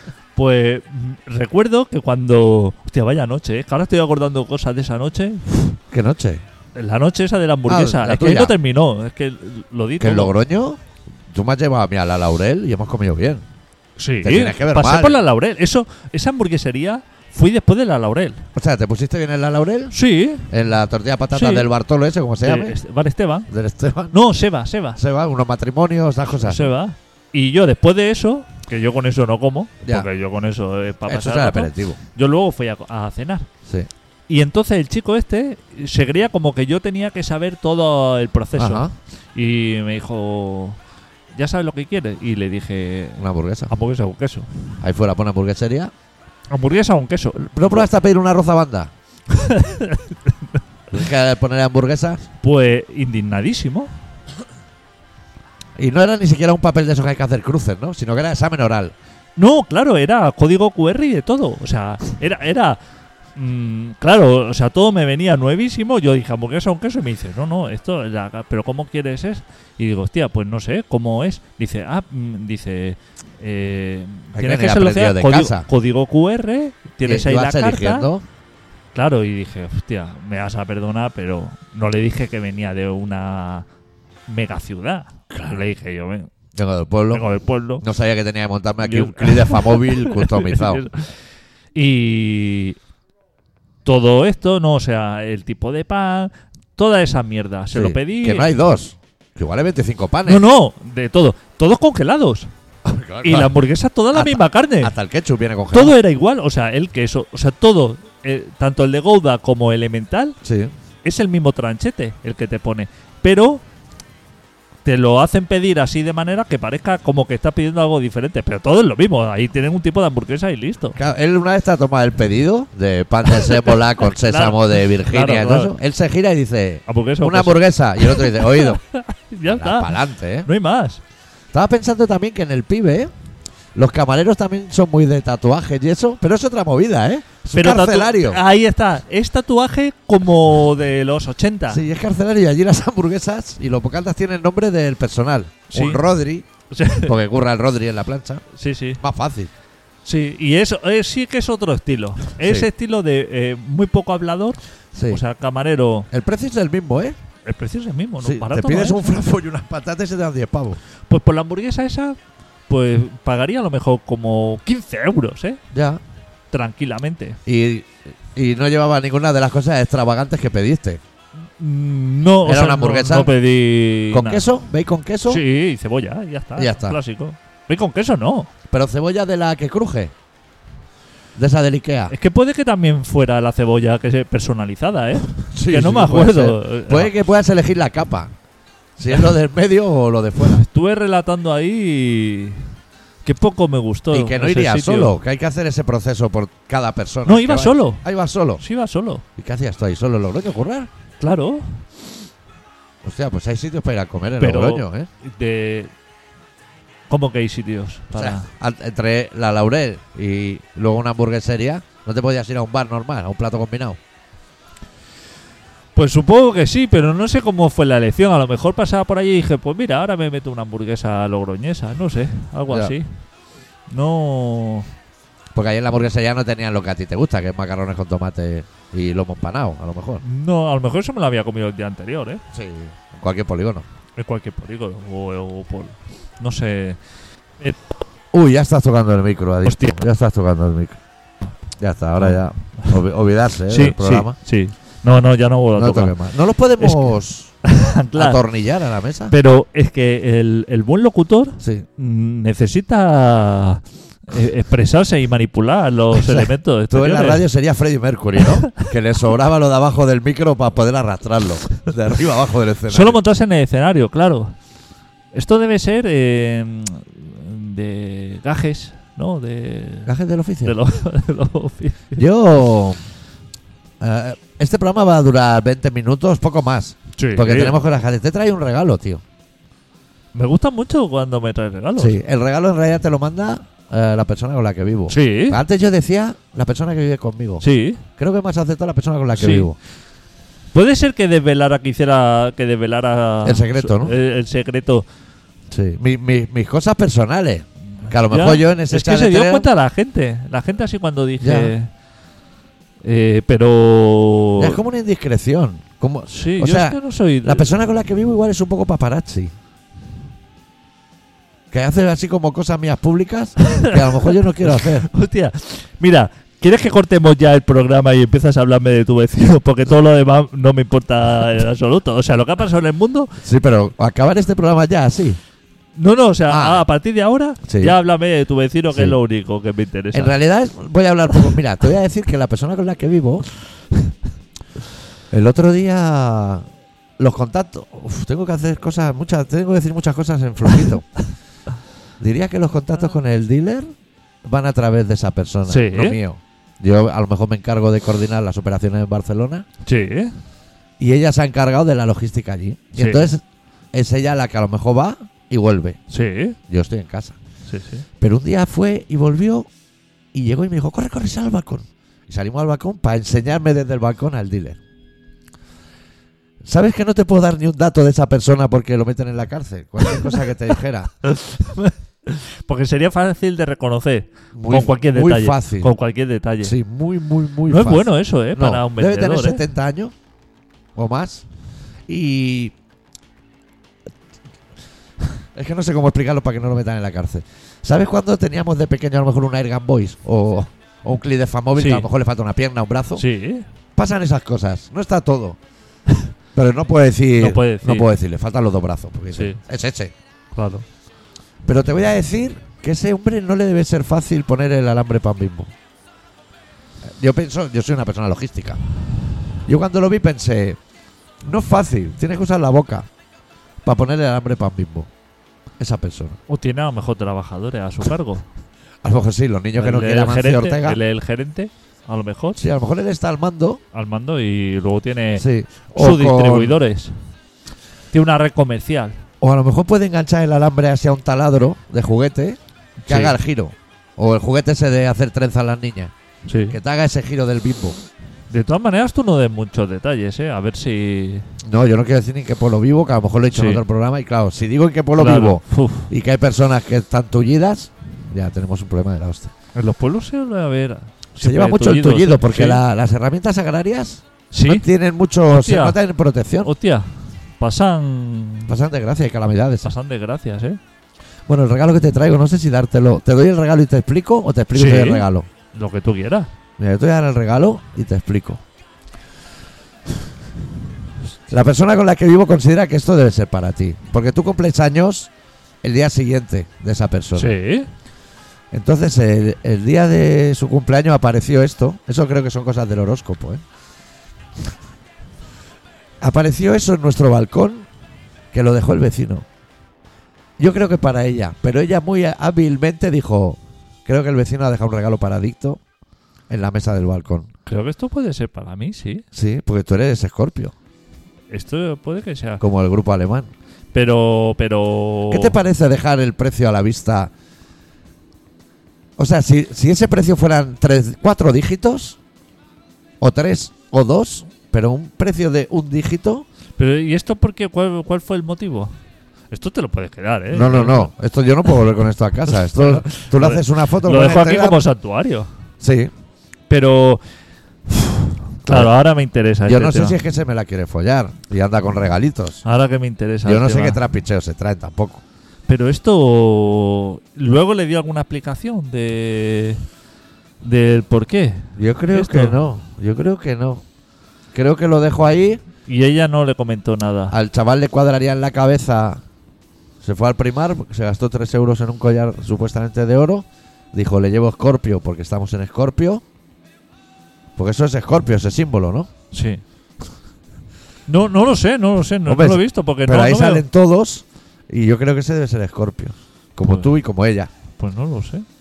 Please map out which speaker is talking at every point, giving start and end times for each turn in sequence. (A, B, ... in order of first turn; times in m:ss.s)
0:00.4-0:05.6 A
0:05.9-0:06.4 B
0:06.8-0:10.3 A
0:07.7-0:08.6 B
0:10.0-0:13.4 B
0:14.0-0:18.4 A
0:14.2-0:15.2 B
0:18.6-0:20.0 B
0:19.9-0:20.5 A
0:20.5-0:22.8 B
0:21.3-0:21.7 A
0:22.4-0:23.5 A
0:23.5-0:24.2 B
0:24.1-0:25.0 A
0:25.0-0:26.7 B
0:26.4-0:33.5 A
0:29.8-0:30.1 B
0:31.0-0:32.0 B
0:34.3-0:40.8 A
0:38.5-0:38.9 B
0:41.3-0:44.5 A
0:43.2-0:43.7 B
0:44.8-0:45.9 B
0:46.5-0:47.8 A
0:47.4-0:48.9 B
0:49.3-0:50.3 A
0:50.9-0:52.2 B
0:52.4-0:53.9 A
0:55.8-0:59.0 B
0:59.4-1:02.8 A
1:03.4-1:18.1 A
1:14.3-1:15.7 B
1:17.0-1:18.3 B
1:19.0-1:23.7 A
1:24.3-1:26.3 A
1:25.3-1:25.6 B
1:26.5-1:27.3 B
1:27.1-1:27.8 A
1:27.8-1:30.8 B
1:28.8-1:31.1 A
1:31.8-1:32.8 A
1:33.8-1:38.5 A
1:37.7-1:40.4 B
1:40.3-1:42.5 A
1:42.8-1:43.5 B
1:43.2-1:44.9 A
1:44.1-1:46.0 B
1:45.7-1:50.4 A
1:50.4-1:50.7 B
1:51.0-1:53.6 A
1:54.8-2:01.0 A
2:01.0-2:08.8 B
2:03.3-2:05.7 A
2:06.9-2:09.9 A
2:09.5-2:10.5 B
2:10.4-2:11.0 A
2:11.5-2:13.1 B
2:13.8-2:18.4 B
2:17.5-2:21.8 A
2:21.7-2:26.5 B
2:25.7-2:26.0 A
2:26.7-2:27.1 A
2:27.0-2:28.4 B
2:28.5-2:29.0 A
2:29.0-2:29.5 B
2:30.0-2:36.1 A
2:32.4-2:32.7 B
2:34.9-2:35.2 B
2:36.1-2:37.2 B
2:37.5-2:39.2 A
2:38.2-2:40.8 B
2:41.1-2:42.2 A
2:42.7-2:45.6 A
2:45.7-2:46.0 B
2:46.5-2:47.4 A
2:47.5-2:51.0 B
2:51.6-2:54.5 A
2:52.4-2:53.3 B
2:54.1-2:55.4 B
2:55.3-2:58.5 A
2:56.6-2:57.0 B
2:58.7-3:00.1 B
3:01.4-3:02.1 B
3:02.1-3:07.1 A
3:05.5-3:08.3 B
3:09.0-3:10.6 B
3:10.6-3:12.7 A
3:13.2-3:15.2 A
3:14.1-3:18.6 B
3:17.3-3:18.0 A
3:18.6-3:19.2 A
3:19.4-3:20.9 B
3:21.2-3:21.8 A
3:23.0-3:25.1 B
3:24.4-3:25.9 A
3:27.1-3:28.5 A
3:28.1-3:34.0 B
3:36.0-3:43.2 A
3:42.7-3:43.0 B
3:43.9-3:44.9 A
3:45.6-3:50.2 B
3:50.2-3:52.4 A
3:52.5-3:53.8 B
3:54.2-3:57.0 A
3:58.3-4:01.0 B
3:59.7-4:00.0 A
4:01.8-4:04.4 B
4:02.2-4:03.0 A
4:03.7-4:06.2 A
4:05.8-4:07.5 B
4:06.8-4:08.4 A
4:08.1-4:09.3 B
4:09.3-4:17.5 A
4:11.6-4:11.9 B
4:16.1-4:23.2 B
4:18.5-4:18.8 A
4:22.9-4:24.6 A
4:25.3-4:30.1 A
4:30.1-4:30.8 B
4:30.6-4:32.2 A
4:32.2-4:33.0 B
4:34.0-4:39.2 B
4:37.2-4:37.8 A
4:40.3-4:42.2 A
4:42.0-4:47.6 B
4:45.1-4:45.6 A
4:47.6-4:48.0 A
4:48.2-4:49.8 B
4:49.4-4:49.7 A
4:50.7-4:55.1 A
4:53.4-4:54.1 B
4:55.7-4:59.7 B
4:58.3-5:01.9 A
5:01.4-5:01.7 B
5:03.0-5:04.8 A
5:04.6-5:09.5 B
5:06.3-5:07.7 A
5:11.7-5:15.1 B
5:13.6-5:23.4 A
5:23.4-5:25.4 B
5:26.0-5:30.4 A
5:26.5-5:26.8 B
5:27.7-5:28.0 B
5:30.1-5:33.5 B
5:35.3-5:36.7 B
5:37.2-5:41.1 B
5:42.2-5:43.9 B
5:44.4-5:49.7 B
5:45.7-5:46.2 A
5:49.8-5:50.4 A
5:51.0-5:56.0 B
5:53.0-5:53.3 A
5:56.1-5:56.6 A
5:56.7-5:57.4 B
5:57.7-5:58.0 A
5:58.2-5:59.7 B
6:00.3-6:04.8 B
6:06.6-6:11.1 B
6:10.1-6:10.5 A
6:11.2-6:16.8 A
6:14.5-6:15.9 B
6:16.6-6:20.1 B
6:17.7-6:19.6 A
6:21.0-6:21.4 B
6:22.1-6:22.7 B
6:25.5-6:33.2 B
6:31.8-6:32.1 A
6:33.2-6:33.7 A
6:34.0-6:35.6 B
6:36.6-6:40.1 B
6:37.4-6:38.1 A
6:39.3-6:39.6 A
6:40.6-6:40.8 A
6:41.7-6:45.7 B
6:47.0-6:48.8 B
6:49.7-6:50.8 B
6:51.4-6:53.1 B
6:53.8-6:55.1 B
6:55.8-6:56.4 B
6:56.5-6:58.5 A
6:59.0-7:01.0 B
6:59.8-7:02.6 A
7:02.6-7:03.8 B
7:03.9-7:07.2 A
7:05.4-7:06.8 B
7:08.1-7:09.2 A
7:09.4-7:16.1 B
7:13.0-7:13.4 A
7:16.5-7:16.8 A
7:16.7-7:18.0 B
7:18.5-7:21.5 A
7:21.6-7:29.5 B
7:23.5-7:23.8 A
7:25.2-7:26.1 A
7:29.8-7:32.8 A
7:31.4-7:36.7 B
7:34.5-7:34.8 A
7:35.5-7:36.0 A
7:36.6-7:38.7 A
7:38.7-7:39.9 B
7:39.8-7:40.8 A
7:41.5-7:45.5 B
7:44.7-7:46.5 A
7:46.8-7:48.6 B
7:51.5-7:55.3 B
7:55.8-7:57.5 B
7:57.4-7:57.9 A
7:58.7-8:03.6 B
8:06.2-8:07.9 B
8:08.5-8:09.5 B
8:10.6-8:15.8 B
8:16.5-8:17.5 B
8:17.7-8:19.2 A
8:19.3-8:20.7 B
8:21.5-8:22.6 A
8:22.6-8:23.5 B
8:23.9-8:25.6 A
8:25.3-8:27.3 B
8:29.2-8:32.2 B
8:33.2-8:36.5 B
8:36.8-8:39.0 A
8:39.5-8:41.1 A
8:40.5-8:44.8 B
8:42.7-8:45.5 A
8:45.8-8:46.1 B
8:46.7-8:47.2 A
8:48.6-8:50.2 A
8:49.6-8:52.6 B
8:52.6-8:54.0 A
8:53.4-8:55.2 B
8:55.7-8:59.8 A
9:00.6-9:02.6 A
9:01.8-9:03.8 B
9:04.5-9:05.6 B
9:05.9-9:07.4 A
9:07.3-9:09.2 B
9:10.0-9:16.2 B
9:17.6-9:19.1 B
9:19.3-9:19.6 A
9:21.1-9:23.6 A
9:22.3-9:27.5 B
9:26.6-9:26.9 A
9:27.8-9:28.5 A